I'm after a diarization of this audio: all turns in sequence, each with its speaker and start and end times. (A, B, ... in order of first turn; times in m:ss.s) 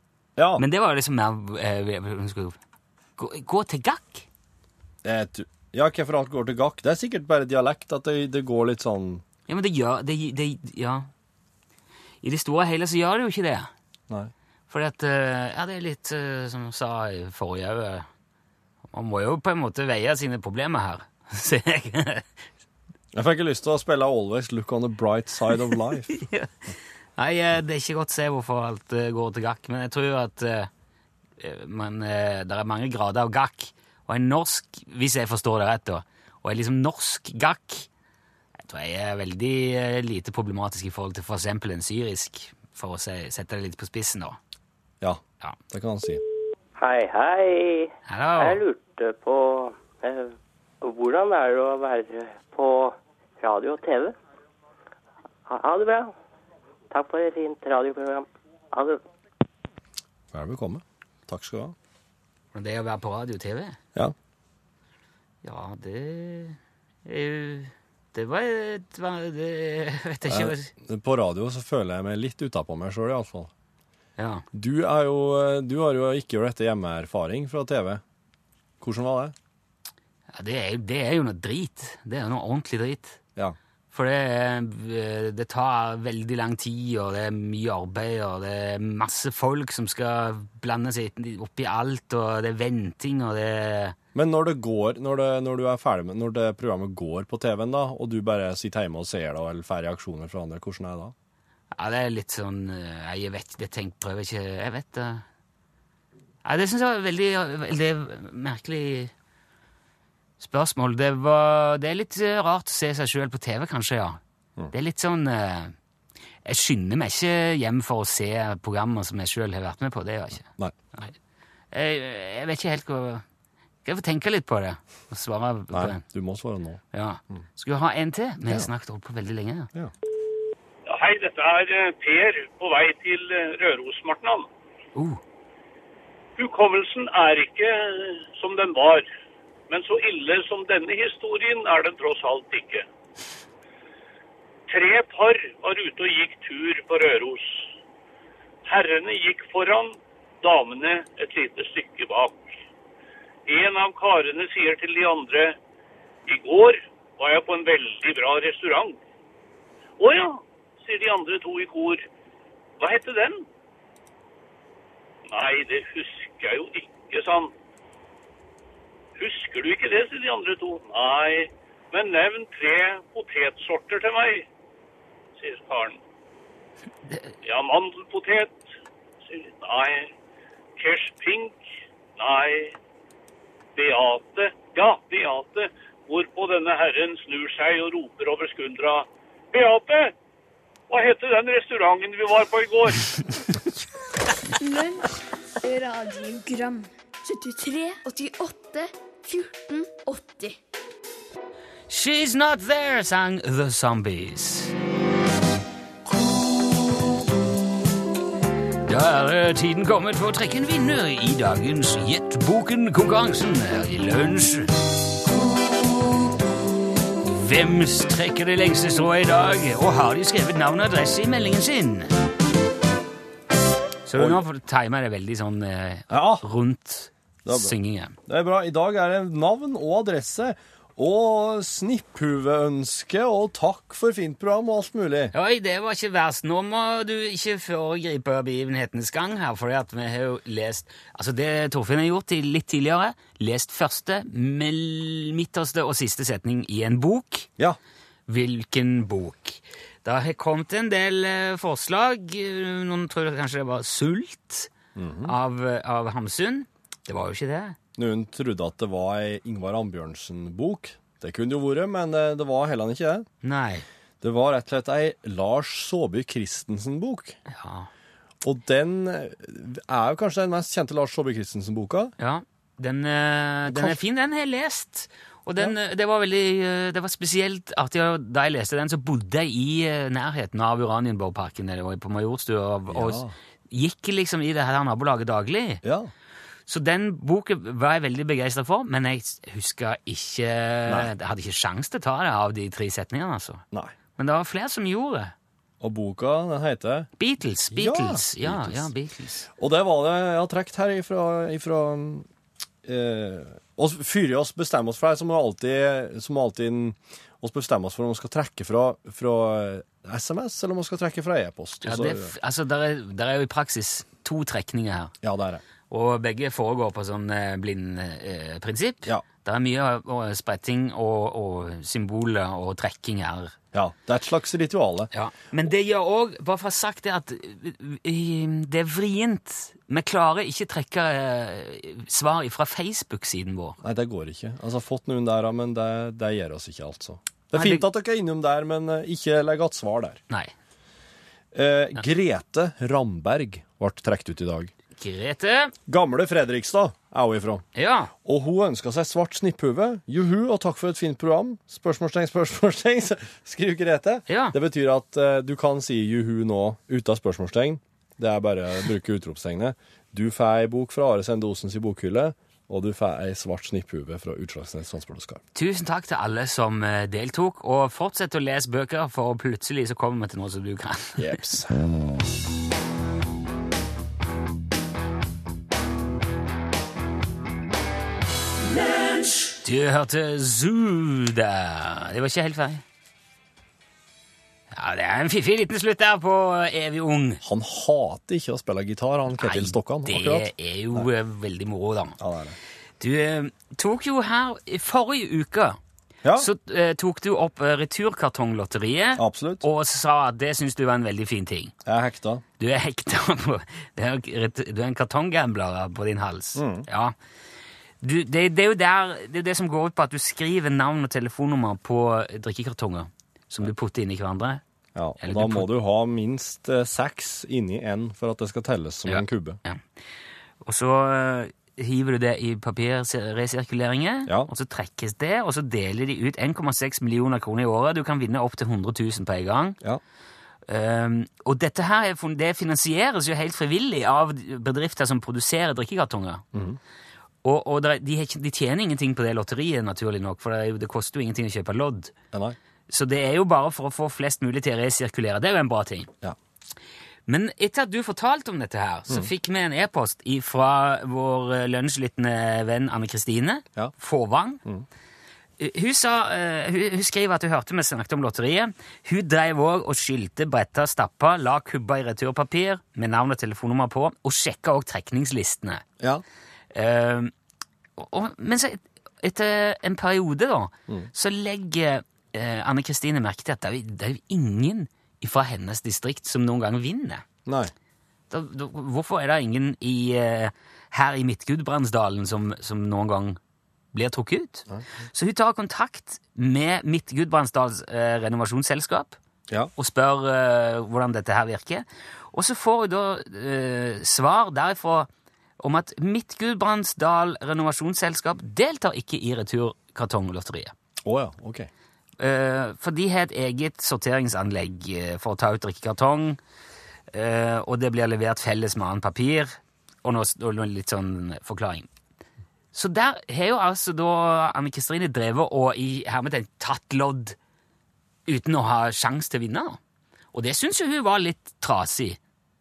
0:00.4-0:00.6 A
0:00.6-0:02.6 B
0:03.2-0:04.2 B
0:05.0-0:09.2 A
0:09.5-0:11.1 B
0:12.2-0:13.7 B
0:14.7-0:18.1 B
0:18.9-0:22.2 B
0:23.1-0:26.1 A
0:26.1-0:30.7 B
0:31.4-0:37.9 B
0:38.6-0:44.4 B
0:45.0-0:46.2 A
0:46.8-0:54.1 C
0:48.0-0:48.6 B
0:55.5-0:56.1 C
0:56.9-0:59.0 C
1:00.3-1:01.7 A
1:02.5-1:03.8 B
1:05.4-1:10.7 B
1:10.3-1:13.5 A
1:14.2-1:14.4 B
1:14.5-1:18.0 A
1:18.8-1:19.3 A
1:20.3-1:23.2 B
1:23.9-1:34.0 B
1:34.1-1:41.1 A
1:41.7-1:45.2 B
1:46.4-1:49.1 B
1:50.4-1:54.2 B
1:54.7-1:55.7 B
1:56.4-2:01.1 B
2:00.5-2:00.8 A
2:01.7-2:03.2 B
2:03.8-2:06.0 B
2:05.7-2:07.4 A
2:06.9-2:09.7 B
2:10.8-2:14.5 D
2:15.0-2:15.2 B
2:16.4-2:19.1 D
2:19.7-2:22.8 D
2:24.7-2:27.7 D
2:28.6-2:32.6 D
2:33.5-2:35.6 D
2:36.3-2:39.0 D
2:40.0-2:42.0 D
2:42.8-2:43.4 D
2:45.3-2:47.5 D
2:49.2-2:54.4 D
2:55.4-2:56.0 D
2:57.4-2:58.6 D
2:59.3-3:00.1 D
3:00.8-3:01.6 D
3:02.2-3:02.7 D
3:03.8-3:10.1 D
3:10.9-3:13.1 D
3:14.6-3:15.1 E
3:15.6-3:20.6 E
3:21.9-3:24.7 B
3:28.9-3:34.7 B
3:37.2-3:42.1 B
3:44.0-3:48.2 B
3:44.2-3:44.4 A
3:46.1-3:46.4 A
3:47.4-3:47.7 A
3:48.3-3:55.3 A
3:55.3-4:07.5 B
4:08.3-4:14.7 B
4:14.9-4:15.3 A
4:15.2-4:17.8 B
4:18.0-4:23.2 A
4:23.4-4:23.8 B
4:24.2-4:27.4 A
4:27.5-4:27.9 B
4:28.4-4:32.1 A
4:32.2-4:45.8 B
4:33.7-4:34.0 A
4:42.9-4:43.3 A
4:45.8-4:46.1 A
4:46.7-4:53.6 B
4:54.2-4:55.3 B
4:55.8-4:57.1 A
4:57.2-4:59.5 B
4:57.7-4:58.9 A
4:59.6-5:02.3 A
5:02.8-5:12.3 A
5:11.8-5:15.1 B
5:15.2-5:15.6 A
5:15.9-5:23.6 B
5:23.7-5:25.1 A
5:25.1-5:33.8 B
5:33.8-5:40.2 A
5:37.5-5:37.8 B
5:41.5-5:44.7 A
5:45.0-5:45.7 B
5:45.9-5:47.6 A
5:47.7-5:48.1 B
5:48.2-6:05.4 A
5:54.3-5:54.5 B
6:05.5-6:11.4 B
6:11.2-6:11.8 A
6:19.6-6:22.8 B
6:24.7-6:27.4 B
6:27.4-6:31.1 A
6:29.4-6:32.2 B
6:32.2-6:32.6 A
6:33.0-6:35.8 B
6:36.2-6:36.5 A
6:36.4-6:41.7 B
6:39.2-6:39.6 A
6:41.8-6:42.4 A
6:42.6-6:47.1 B
6:46.6-6:46.8 A
6:48.0-6:54.6 B
6:54.9-6:59.6 A
6:55.2-6:55.7 B
6:59.1-6:59.8 B
7:00.6-7:09.8 B
7:10.7-7:16.4 B
7:16.5-7:16.8 A
7:17.4-7:22.1 B
7:22.3-7:22.6 A
7:22.9-7:26.1 B
7:27.3-7:34.6 B
7:35.6-7:45.8 B
7:46.7-7:47.3 B
7:48.0-7:57.2 B
7:57.4-7:57.7 A
7:58.3-8:03.4 B
8:03.9-8:09.2 B
8:09.8-8:20.7 B
8:21.0-8:21.7 A
8:22.2-8:26.4 B
8:27.1-8:31.9 B
8:32.7-8:37.4 B
8:38.2-8:39.8 B
8:40.3-8:42.2 B